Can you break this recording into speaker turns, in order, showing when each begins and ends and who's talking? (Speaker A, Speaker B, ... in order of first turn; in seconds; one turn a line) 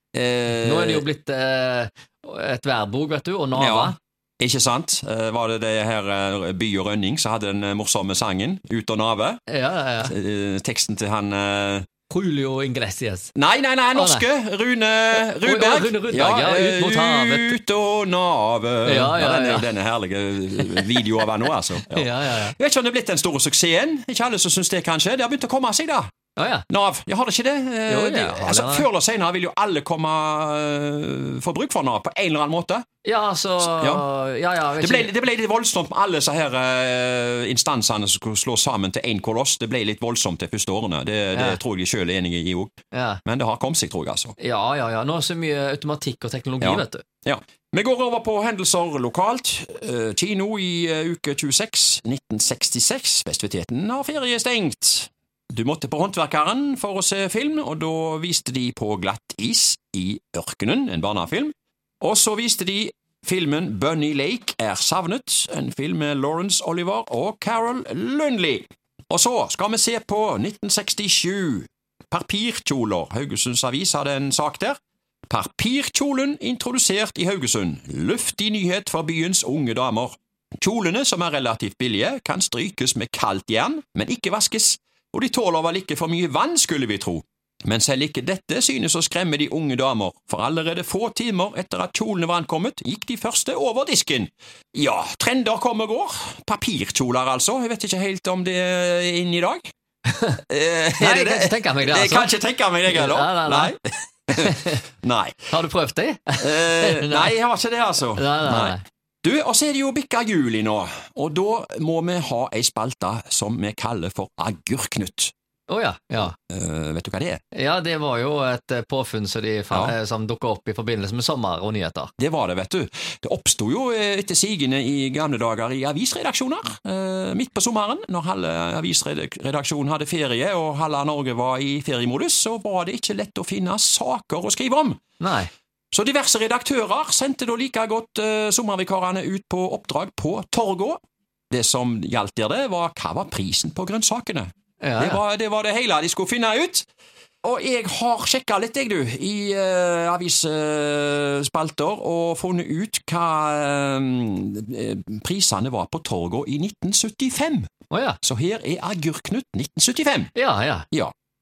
Speaker A: 0.1-1.0
Speaker B: 0.6-4.0
Speaker A: 3.6-9.4
Speaker B: 9.5-10.1
Speaker A: 10.1-11.9
Speaker B: 12.1-13.3
Speaker A: 13.3-26.1
Speaker B: 13.9-14.2
Speaker B: 15.4-17.6
Speaker B: 18.9-19.7
Speaker B: 20.6-21.0
Speaker B: 21.7-22.6
Speaker B: 26.4-26.6
Speaker A: 26.7-32.9
Speaker B: 27.9-28.9
Speaker B: 33.0-35.1
Speaker A: 33.6-34.0
Speaker A: 34.8-42.7
Speaker B: 41.3-41.6
Speaker B: 42.9-43.2
Speaker A: 43.2-44.4
Speaker B: 44.4-47.0
Speaker A: 46.6-99.6
Speaker B: 100.1-100.4
Speaker A: 100.5-103.8
Speaker B: 101.0-102.3
Speaker B: 102.9-103.8
Speaker A: 104.3-105.5
Speaker B: 104.3-104.8
Speaker B: 105.5-107.3
Speaker A: 106.4-115.3
Speaker B: 108.2-108.8
Speaker B: 115.7-116.3
Speaker A: 116.4-117.4
Speaker B: 117.5-122.1
Speaker A: 122.2-135.0
Speaker B: 135.2-135.5
Speaker A: 135.9-141.0
Speaker A: 141.5-146.9
Speaker B: 144.8-145.2
Speaker A: 147.4-157.7
Speaker B: 157.9-158.2
Speaker A: 158.2-160.3
Speaker B: 160.3-160.9